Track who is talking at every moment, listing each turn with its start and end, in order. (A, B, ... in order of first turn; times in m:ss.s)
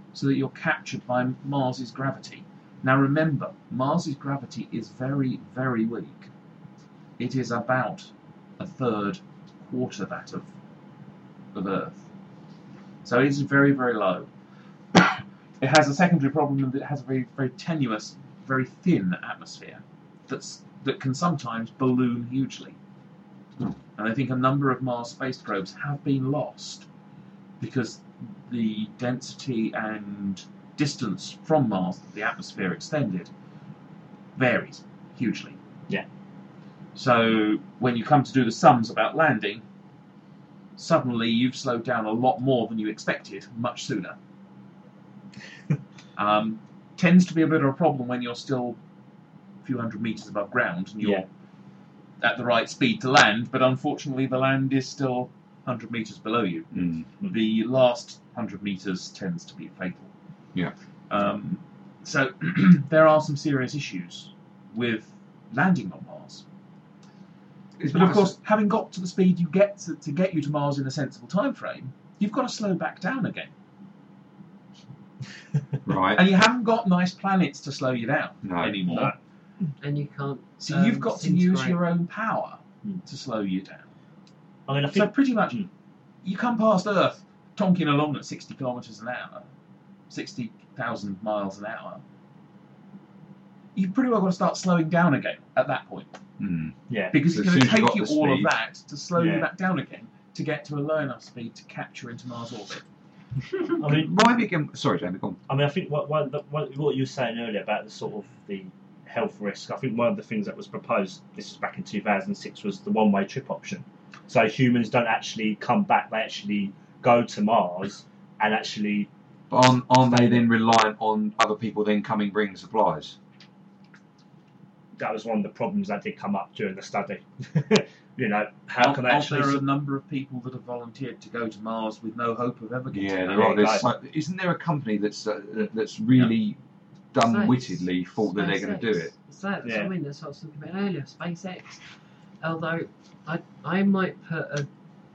0:00.1-0:06.3 A
0:07.2-0:10.5 A
0:11.5-0:12.0 A
0:13.0-0:14.3 A
0:14.9-0:22.8 A
0:24.0-0:26.9 A
0:27.6-0:33.3 A
0:34.4-0:35.6 A
0:37.0-0:39.6 A
0:40.8-0:44.2 A
0:46.2-0:48.8 A
0:49.6-0:51.3 A
0:52.2-1:00.1 A
0:56.7-0:57.1 B
1:01.1-1:06.4 A
1:07.8-1:08.4 B
1:07.9-1:13.5 A
1:15.8-1:16.2 B
1:16.1-1:19.1 A
1:18.4-1:19.1 B
1:18.9-1:19.2 C
1:19.8-1:21.8 D
1:20.6-1:23.9 A
1:24.7-1:25.7 C
1:24.9-1:25.7 A
1:26.2-1:29.5 A
1:30.1-1:32.0 A
1:33.8-1:36.1 A
1:36.4-1:38.5 B
1:36.9-1:37.2 C
1:37.1-1:42.8 A
1:39.2-1:39.5 C
1:43.8-1:44.1 C
1:43.8-1:45.4 B
1:45.5-1:59.1 C
1:59.5-2:03.2 B
2:00.0-2:00.5 C
2:05.0-2:09.6 C
2:08.8-2:13.6 A
2:12.9-2:16.6 B
2:13.3-2:13.8 C
2:17.1-2:19.1 B
2:17.2-2:21.8 D
2:19.6-2:19.9 C
2:22.4-2:24.7 D